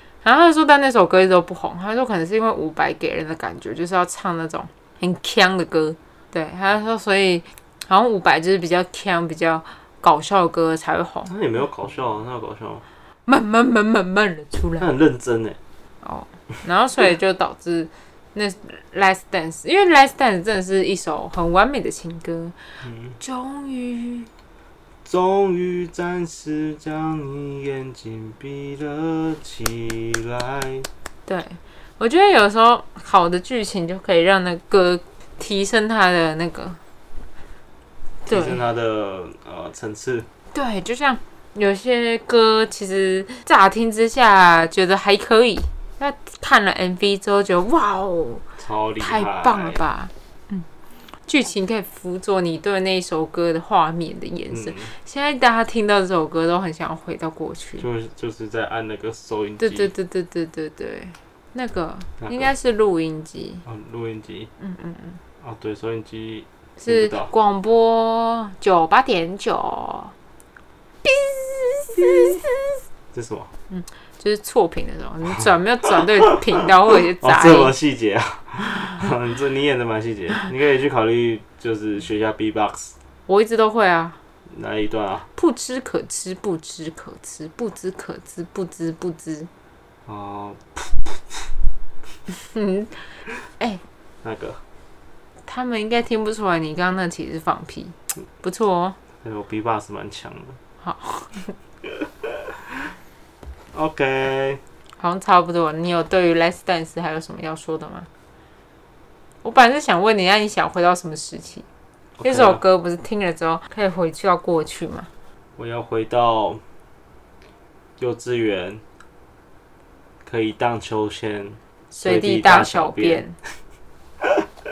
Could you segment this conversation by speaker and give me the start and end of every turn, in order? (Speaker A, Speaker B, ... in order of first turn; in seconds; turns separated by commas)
Speaker A: 0.2-11.3, Speaker B: 11.2-12.8, Speaker A: 13.3-14.9, Speaker B: 14.8-15.6, Speaker A: 16.0-24.3, Speaker B: 22.9-23.1, Speaker B: 25.1-30.9, Speaker A: 31.3-36.8, Speaker A: 38.3-38.6, Speaker B: 38.3-40.3, Speaker A: 40.5-48.4, Speaker B: 48.6-49.8, Speaker A: 49.0-50.7, Speaker A: 51.3-57.9, Speaker B: 54.5-54.9, Speaker B: 57.8-59.9, Speaker A: 59.6-63.6, Speaker B: 62.2-62.5, Speaker B: 63.6-64.5, Speaker A: 64.6-65.2, Speaker B: 65.4-67.3, Speaker A: 66.8-70.1, Speaker A: 71.0-72.8, Speaker B: 73.1-73.5, Speaker A: 73.7-77.7, Speaker B: 77.2-82.9, Speaker A: 83.3-84.2, Speaker B: 84.5-85.3, Speaker A: 85.3-89.5, Speaker B: 90.1-91.5, Speaker A: 92.3-93.8, Speaker B: 94.2-94.6, Speaker A: 95.5-99.0, Speaker B: 99.2-100.6, Speaker A: 100.8-101.6, Speaker B: 103.7-104.6, Speaker A: 105.0-108.1, Speaker A: 109.4-111.7, Speaker B: 112.2-112.6, Speaker A: 112.2-115.1, Speaker B: 115.6-116.6, Speaker B: 118.0-118.8, Speaker B: 120.2-123.2, Speaker A: 121.9-123.4